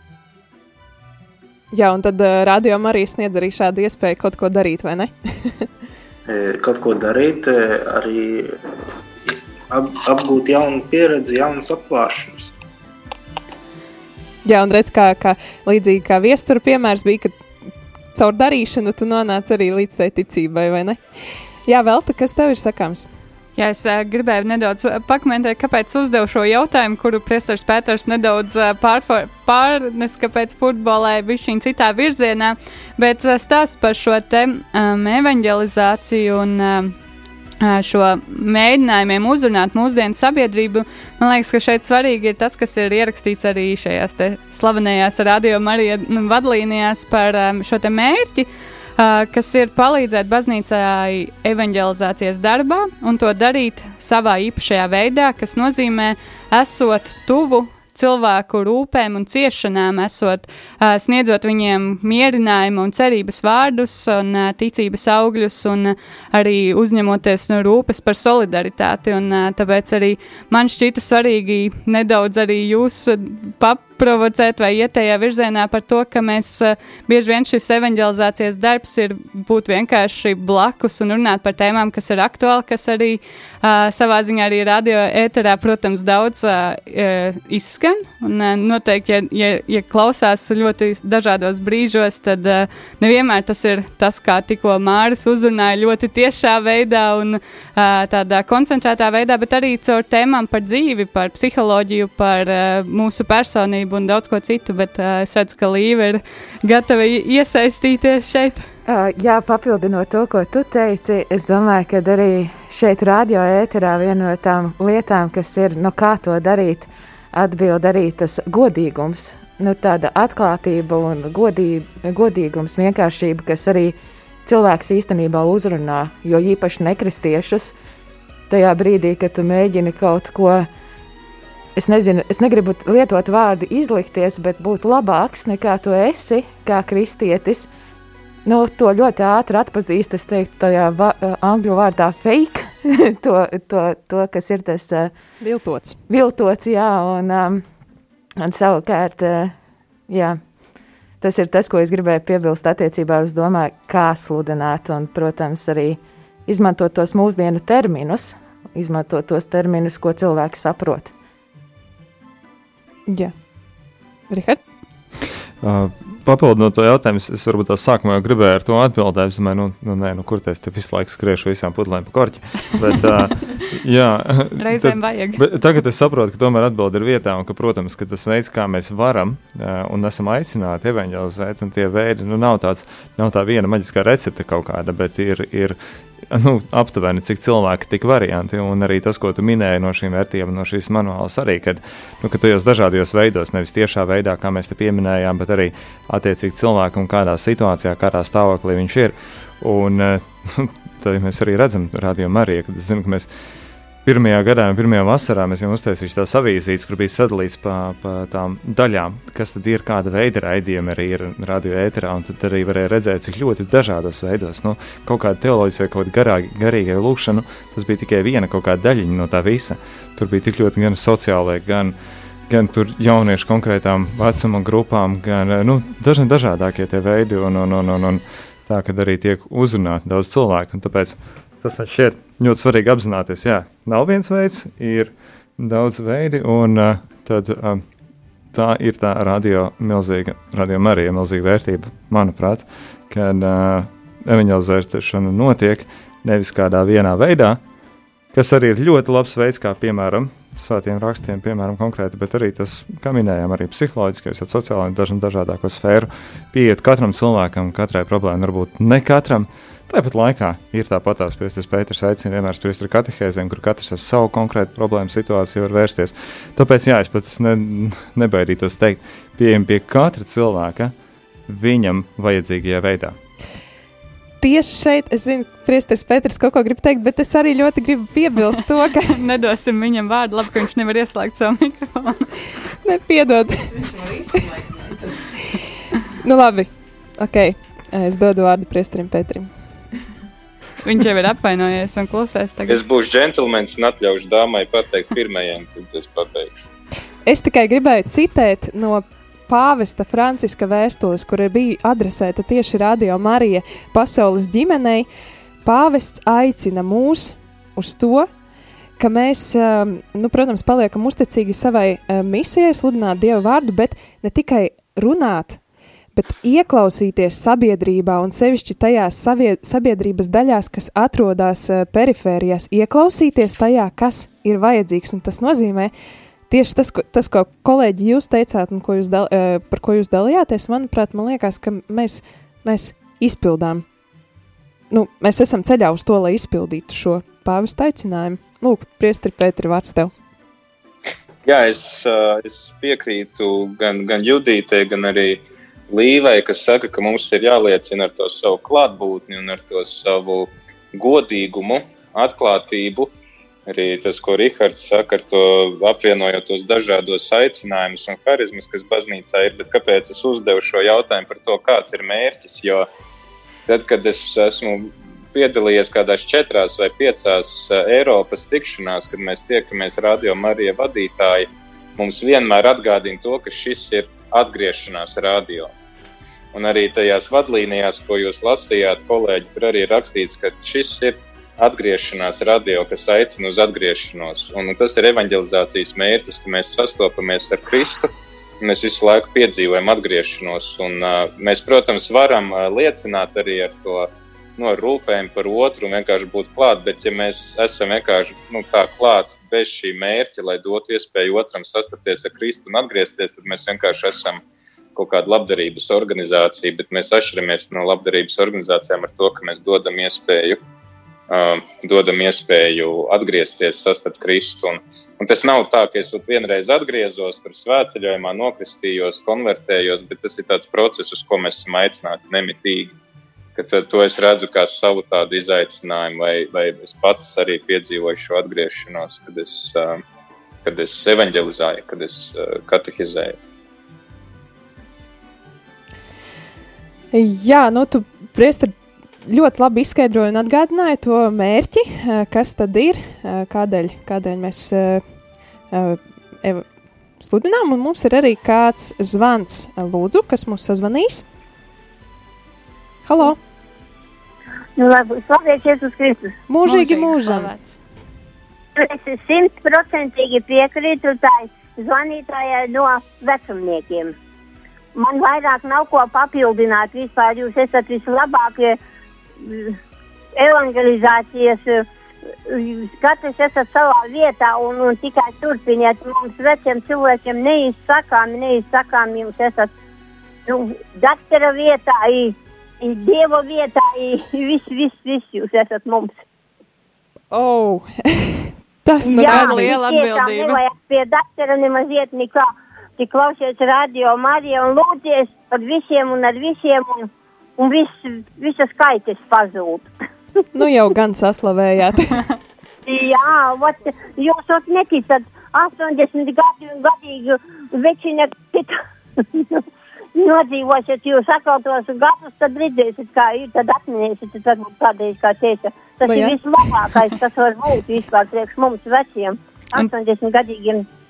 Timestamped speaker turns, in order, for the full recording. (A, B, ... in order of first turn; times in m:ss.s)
0:01.7-0:05.6 A
0:06.3-0:08.7 B
0:09.7-0:12.5 B
0:14.4-0:17.4 A
0:18.1-0:21.0 A
0:21.6-0:23.0 A
0:23.6-0:36.9 C
0:37.6-1:48.6 C
1:48.8-2:07.7 D
2:08.5-2:10.7 D
2:11.8-2:17.7 D
2:18.4-2:25.1 D
2:25.4-2:26.0 A
2:26.1-2:27.6 D
2:28.4-2:29.5 D
2:30.1-2:30.4 D
2:31.2-2:41.1 D
2:43.1-2:43.3 A
2:44.3-2:44.6 A
2:45.6-3:05.8 E
2:54.6-2:55.4 C
3:06.3-3:23.3 E
3:24.0-3:42.0 E
3:42.5-3:57.8 E
3:58.5-4:07.6 E
4:08.3-4:30.9 E
4:31.5-4:33.2 E
4:34.4-4:39.2 A
4:39.1-4:42.3 C
4:42.8-4:43.8 A
4:46.2-4:49.5 A
4:50.8-4:52.8 C
4:52.7-4:56.6 F
4:57.2-5:05.1 A
5:05.6-5:08.3 A
5:09.0-5:15.6 A
5:16.2-5:25.9 A
5:26.5-5:33.8 A
5:34.9-5:40.1 A
5:41.4-5:53.1 F
5:53.7-6:02.9 F
6:03.7-6:15.7 F
6:16.5-6:28.1 F
6:28.6-6:44.4 F
6:44.9-6:50.6 F
6:51.3-7:02.9 F
7:03.6-7:10.0 F
7:10.6-7:13.4 F
7:17.1-7:18.7 A
7:19.2-7:25.0 A
7:25.7-7:26.6 A
7:27.2-7:31.2 A
7:33.0-7:33.4 A
7:34.8-7:36.3 G
7:36.5-7:37.5 A
7:36.6-7:37.7 C
7:38.8-7:44.1 G
7:44.9-7:48.8 G
7:49.4-7:49.7 G
7:50.4-7:51.8 G
7:52.5-7:59.7 G
8:00.5-8:06.2 G
8:07.3-8:09.7 A
8:09.0-8:10.6 C
8:09.1-8:12.4 G
8:13.0-8:19.9 G
8:20.5-8:22.2 A
8:22.8-8:28.7 G
8:29.3-8:29.6 G
8:30.2-8:40.8 G
8:36.0-8:36.4 A